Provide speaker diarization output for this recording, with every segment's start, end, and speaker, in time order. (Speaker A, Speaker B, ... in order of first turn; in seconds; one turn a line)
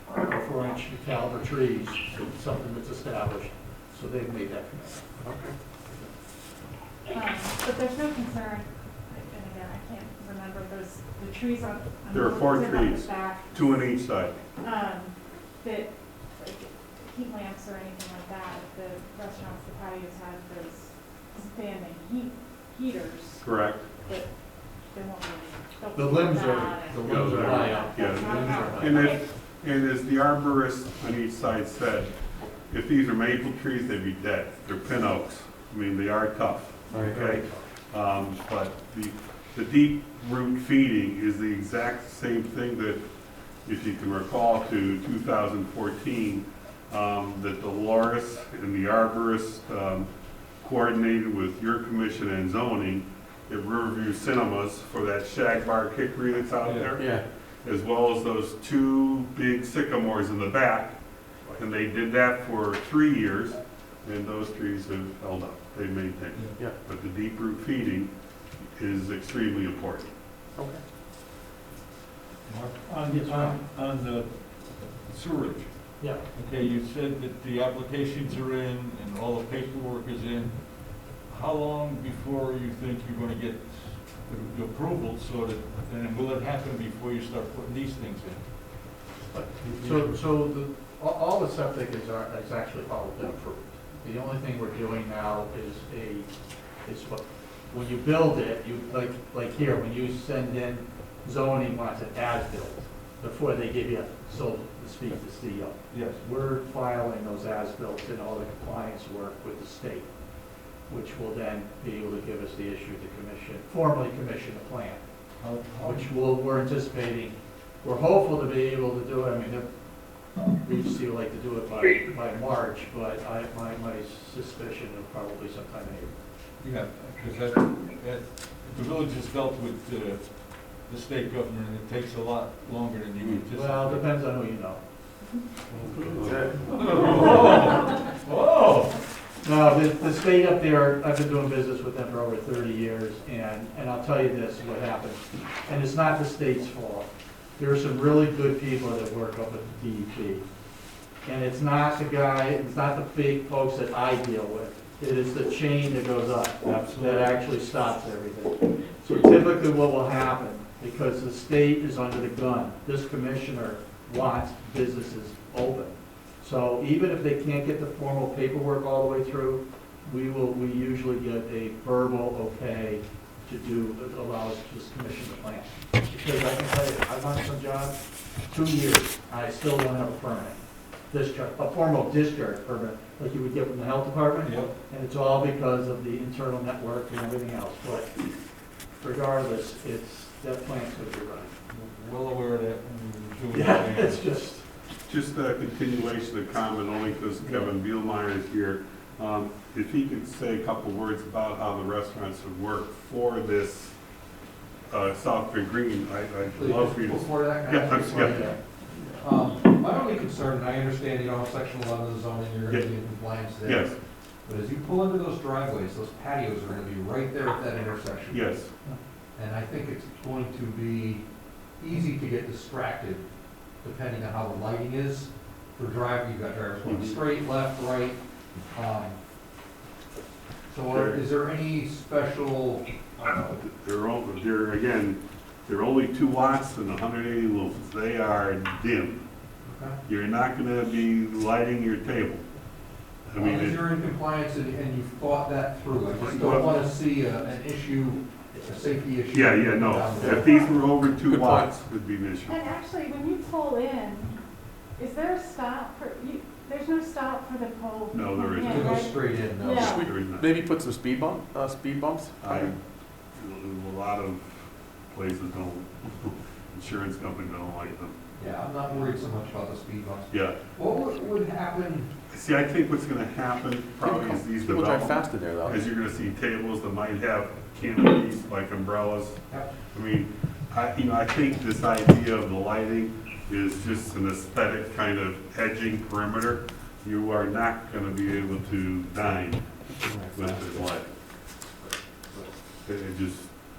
Speaker A: 0.1-5.1
Speaker B: 5.2-5.5
Speaker C: 7.1-13.8
Speaker D: 12.1-14.4
Speaker C: 14.6-29.2
Speaker D: 23.4-23.9
Speaker A: 25.9-29.2
Speaker D: 26.9-43.0
Speaker B: 36.9-37.4
Speaker A: 36.9-37.6
Speaker D: 43.6-50.1
Speaker D: 50.6-61.0
Speaker E: 56.6-56.9
Speaker B: 57.0-57.2
Speaker D: 61.6-68.1
Speaker D: 68.8-70.1
Speaker B: 70.6-70.8
Speaker E: 72.5-88.4
Speaker A: 73.1-73.6
Speaker A: 76.0-76.2
Speaker A: 89.3-96.3
Speaker E: 89.6-90.2
Speaker A: 96.8-110.1
Speaker E: 105.9-106.2
Speaker A: 110.9-115.0
Speaker E: 115.4-116.1
Speaker A: 115.8-119.7
Speaker A: 120.5-126.1
Speaker E: 126.6-134.1
Speaker A: 133.5-134.8
Speaker E: 136.0-139.0
Speaker B: 136.2-136.7
Speaker A: 139.4-150.4
Speaker A: 151.2-178.0
Speaker E: 156.7-157.4
Speaker A: 178.5-188.1
Speaker E: 184.4-184.8
Speaker A: 189.0-191.5
Speaker E: 191.7-194.3
Speaker A: 193.5-194.7
Speaker D: 195.1-204.0
Speaker D: 204.9-208.4
Speaker F: 206.5-208.6
Speaker A: 208.1-208.6
Speaker F: 209.2-218.5
Speaker D: 213.6-213.9
Speaker D: 218.3-218.7
Speaker F: 219.4-221.2
Speaker F: 221.8-223.2
Speaker F: 223.8-228.2
Speaker D: 226.8-227.2
Speaker F: 228.7-229.2
Speaker F: 230.7-233.6
Speaker D: 230.9-231.2
Speaker D: 233.6-239.2
Speaker F: 239.7-240.0
Speaker D: 240.1-242.4
Speaker D: 243.3-243.8
Speaker F: 243.4-250.7
Speaker D: 246.2-246.8
Speaker D: 249.3-252.6
Speaker C: 250.3-250.7
Speaker B: 251.1-251.8
Speaker C: 252.5-254.4
Speaker C: 255.0-260.1
Speaker D: 258.1-259.2
Speaker F: 258.6-259.9
Speaker B: 259.6-262.7
Speaker D: 259.8-260.6
Speaker D: 262.4-262.8
Speaker D: 263.4-268.2
Speaker F: 268.4-272.1
Speaker D: 270.3-270.6
Speaker D: 272.3-291.1
Speaker B: 274.0-275.8
Speaker F: 279.5-279.8
Speaker F: 290.0-290.6
Speaker D: 292.3-293.6